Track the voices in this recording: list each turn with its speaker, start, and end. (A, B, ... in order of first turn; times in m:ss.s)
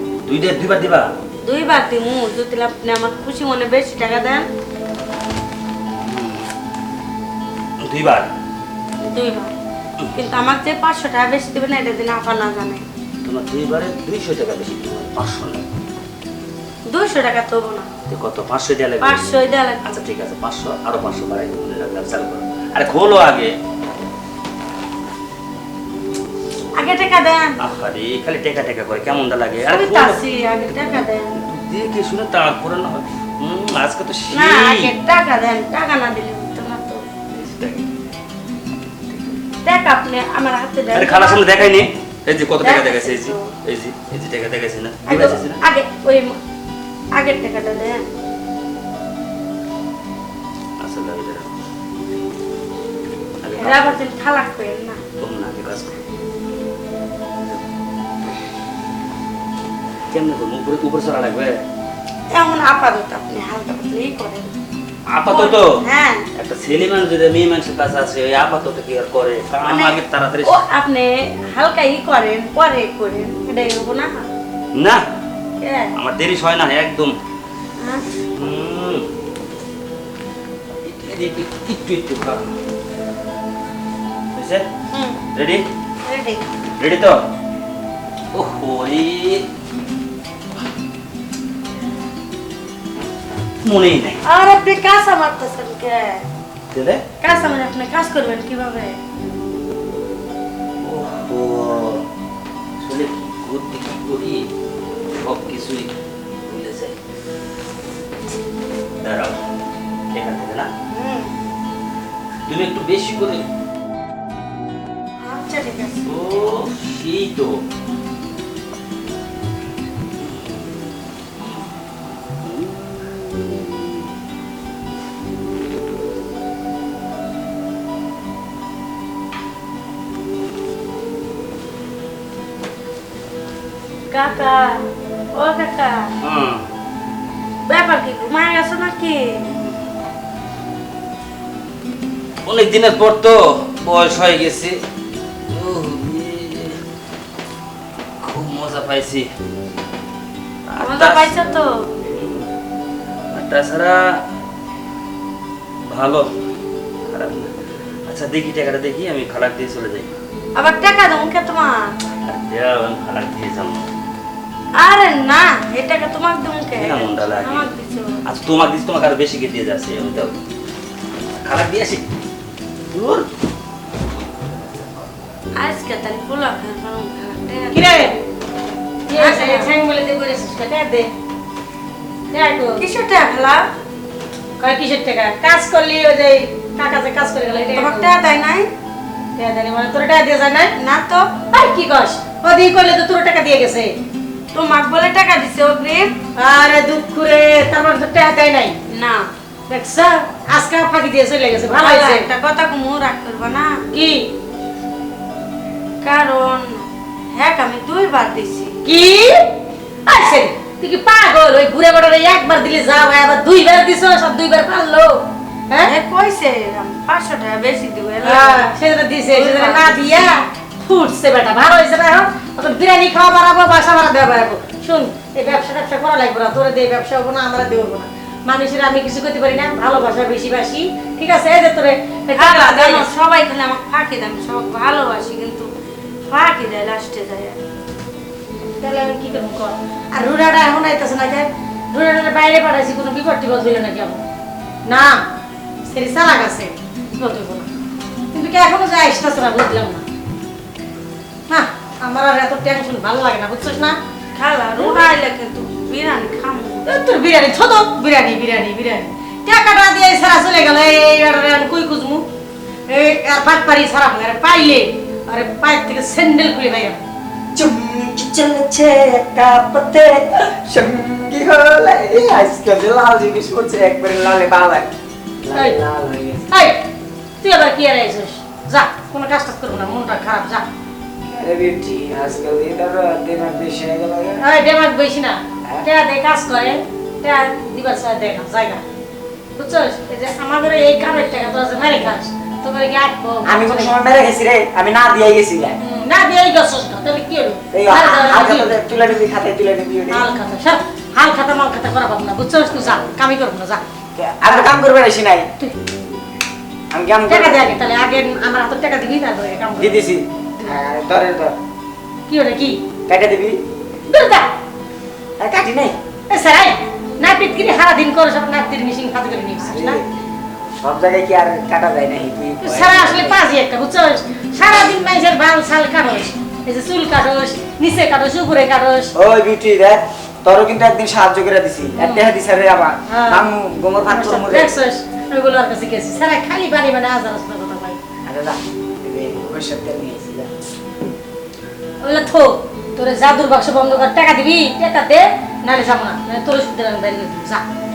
0:00.2-0:01.1 A
0:01.4-0:04.5 B
0:05.9-0:06.5 A
0:07.8-0:08.3 A
0:09.1-0:09.5 B
0:10.0-0:10.2 A
0:10.1-0:12.8 B
0:13.2-0:15.6 A
0:16.9-0:17.9 B
0:18.1-0:23.5 A
0:19.0-0:19.9 B
0:26.7-0:27.5 B
0:27.6-0:30.2 A
0:29.6-0:31.3 B
0:30.8-0:34.9 A
0:34.3-0:37.0 B
0:37.3-0:38.1 A
0:39.1-0:39.4 A
0:39.6-0:41.5 B
0:40.9-0:45.6 A
0:42.6-0:43.5 B
0:45.0-0:46.4 B
0:47.1-0:48.0 B
0:50.8-0:51.5 A
0:53.4-0:54.0 A
0:53.5-0:55.0 B
0:55.2-0:56.0 A
1:00.1-1:01.6 A
1:02.3-1:04.5 B
1:05.1-1:05.6 A
1:05.3-1:06.2 B
1:06.4-1:10.6 A
1:09.6-1:14.3 B
1:14.7-1:15.0 A
1:15.6-1:15.9 B
1:16.0-1:17.1 A
1:17.8-1:18.0 B
1:18.3-1:19.1 A
1:20.8-1:22.4 A
1:24.3-1:24.7 A
1:24.9-1:25.2 B
1:25.3-1:25.6 A
1:26.0-1:26.4 B
1:26.8-1:27.2 A
1:28.3-1:29.4 A
1:33.6-1:34.2 A
1:34.2-1:36.2 B
1:36.7-1:37.0 A
1:37.2-1:39.0 B
1:40.8-1:42.0 A
1:42.8-1:44.4 A
1:45.2-1:45.9 A
1:46.4-1:46.9 A
1:49.0-1:49.4 A
1:50.1-1:50.7 A
1:50.9-1:51.3 B
1:52.5-1:53.4 A
1:55.2-1:56.0 B
1:56.0-1:57.6 A
2:00.2-2:04.1 A
2:14.1-2:14.8 B
2:15.3-2:16.1 B
2:16.2-2:16.6 A
2:17.7-2:19.4 B
2:19.5-2:19.8 A
2:22.4-2:24.8 A
2:25.5-2:26.8 A
2:28.2-2:29.3 A
2:30.7-2:31.3 A
2:30.8-2:31.9 B
2:32.1-2:32.5 A
2:33.3-2:34.0 A
2:35.9-2:36.2 A
2:37.1-2:37.5 A
2:38.1-2:40.1 A
2:40.6-2:41.9 B
2:42.2-2:43.9 A
2:44.8-2:48.2 B
2:46.8-2:47.7 A
2:48.2-2:50.4 A
2:51.4-2:52.0 A
2:52.9-2:53.3 A
2:55.6-2:58.2 B
2:57.7-2:58.2 C
2:59.1-3:01.1 C
2:59.1-2:59.7 B
3:02.3-3:02.8 C
3:02.8-3:03.6 B
3:04.6-3:08.2 C
3:07.6-3:08.7 B
3:09.4-3:10.7 C
3:10.8-3:11.3 B
3:11.5-3:13.9 C
3:14.5-3:16.1 B
3:16.4-3:18.8 C
3:18.9-3:19.3 B
3:19.7-3:22.3 C
3:21.7-3:23.7 B
3:23.9-3:24.3 C
3:26.0-3:28.8 B
3:28.8-3:29.5 C
3:30.0-3:35.9 C
3:35.8-3:38.7 B
3:38.2-3:53.1 C
3:39.3-3:40.2 B
3:52.3-3:55.7 B
3:56.3-3:57.6 B
3:58.8-4:04.2 C
4:04.9-4:05.2 C
4:05.8-4:07.7 C
4:08.3-4:10.0 C
4:11.5-4:14.0 C
4:14.4-4:16.9 B
4:14.8-4:15.1 C
4:16.8-4:22.2 C
4:22.9-4:27.0 C
4:27.5-4:34.9 D
4:35.4-4:36.5 D
4:35.5-4:35.8 C
4:36.5-4:36.8 C
4:37.4-4:40.6 C
4:41.2-4:44.4 D
4:44.4-4:48.8 C
4:49.5-4:53.9 C
4:53.4-4:55.8 D
4:55.8-4:58.7 C
4:57.7-5:00.3 D
5:00.1-5:03.8 C
5:04.2-5:05.5 D
5:06.9-5:07.8 D
5:07.3-5:10.8 C
5:09.8-5:11.6 D
5:12.3-5:12.8 C
5:13.1-5:13.6 D
5:14.1-5:14.5 C
5:15.4-5:16.0 D
5:16.3-5:20.0 C
5:19.6-5:20.1 D
5:20.8-5:23.4 D
5:22.6-5:29.1 C
5:29.1-5:34.7 D
5:31.9-5:32.3 C
5:33.1-5:33.4 C
5:34.0-5:38.0 C
5:38.3-5:40.5 D
5:42.0-5:47.6 C